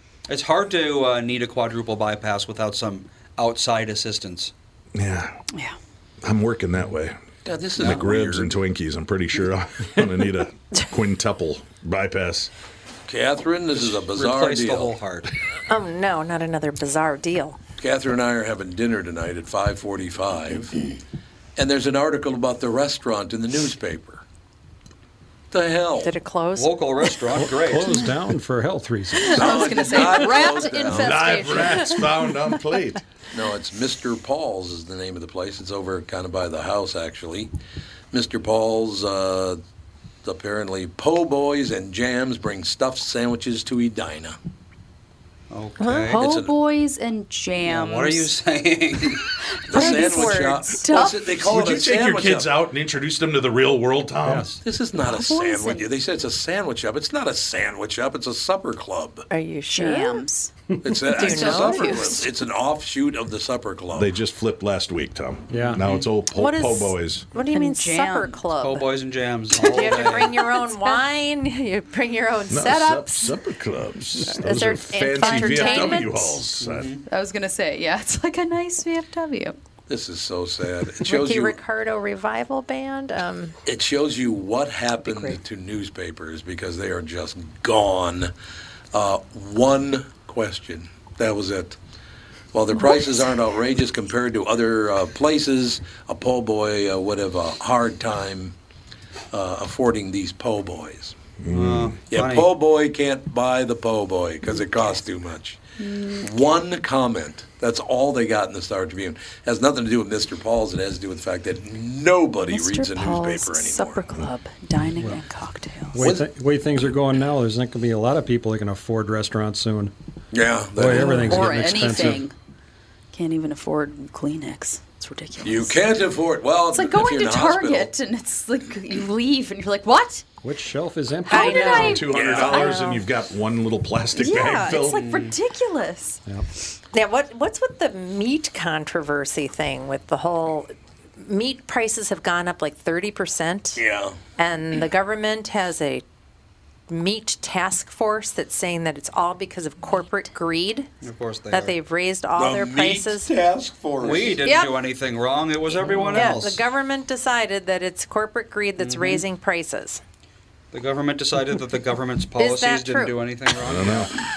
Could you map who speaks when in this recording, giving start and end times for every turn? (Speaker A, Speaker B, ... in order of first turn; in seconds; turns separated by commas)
Speaker A: 0.3-4.5, Speaker B: 5.0-5.4, Speaker B: 6.2-7.2, Speaker C: 7.5-8.6, Speaker B: 7.8-12.5, Speaker A: 7.8-8.1, Speaker C: 13.1-14.9, Speaker A: 13.8-15.3, Speaker D: 15.7-17.6, Speaker C: 17.8-20.8, Speaker C: 21.6-24.2, Speaker C: 25.5-26.1, Speaker D: 26.0-26.8, Speaker A: 26.6-28.1, Speaker E: 27.3-29.4, Speaker F: 29.2-31.0, Speaker D: 29.3-32.6, Speaker C: 29.3-31.7, Speaker B: 30.9-33.0, Speaker C: 33.3-37.5, Speaker C: 38.1-39.6, Speaker C: 40.2-44.4, Speaker A: 45.5-46.2, Speaker D: 45.8-46.5, Speaker F: 46.1-48.4, Speaker C: 46.2-46.5, Speaker A: 47.6-49.3, Speaker F: 49.5-51.3, Speaker C: 49.7-52.5, Speaker D: 49.7-51.2, Speaker B: 51.3-54.5, Speaker E: 54.2-54.6, Speaker C: 54.6-59.3, Speaker F: 55.0-55.9, Speaker D: 59.3-60.3, Speaker F: 59.7-60.5, Speaker C: 60.8-64.1, Speaker D: 61.1-62.3, Speaker F: 61.2-62.2, Speaker B: 63.9-67.3, Speaker E: 65.5-65.8, Speaker D: 66.3-68.9, Speaker F: 67.5-68.4, Speaker A: 68.6-70.5, Speaker D: 69.5-73.4, Speaker F: 69.7-71.0, Speaker B: 72.5-77.0, Speaker D: 74.2-76.4, Speaker F: 75.2-76.1, Speaker A: 76.6-77.0, Speaker F: 77.1-79.6, Speaker C: 79.9-81.6, Speaker D: 81.0-83.5, Speaker C: 83.7-88.3, Speaker D: 85.1-85.4, Speaker C: 88.9-91.8, Speaker C: 92.5-98.6, Speaker C: 99.3-101.2, Speaker B: 101.4-102.0, Speaker A: 101.5-102.5, Speaker C: 102.1-105.6, Speaker F: 104.7-105.0, Speaker F: 105.8-106.2, Speaker C: 106.2-114.0, Speaker F: 112.5-116.1, Speaker E: 115.0-115.2, Speaker E: 115.9-119.9, Speaker C: 116.0-116.3, Speaker C: 120.3-121.7, Speaker E: 120.8-122.3, Speaker F: 120.9-122.3, Speaker F: 123.1-125.9, Speaker C: 125.4-127.9, Speaker F: 126.7-130.2, Speaker E: 130.4-132.0, Speaker F: 131.3-132.8, Speaker D: 131.3-133.1, Speaker B: 131.4-135.1, Speaker C: 132.1-132.7, Speaker F: 134.2-136.2, Speaker A: 134.7-135.3, Speaker D: 136.9-143.8, Speaker C: 143.8-144.2, Speaker D: 144.4-146.0, Speaker D: 146.9-150.9, Speaker A: 151.0-151.8, Speaker D: 151.5-153.3, Speaker C: 152.4-154.4, Speaker A: 154.0-156.6, Speaker D: 154.4-154.8, Speaker D: 156.1-160.0, Speaker A: 158.8-159.2, Speaker A: 160.7-164.1, Speaker D: 162.4-163.2, Speaker B: 163.6-164.1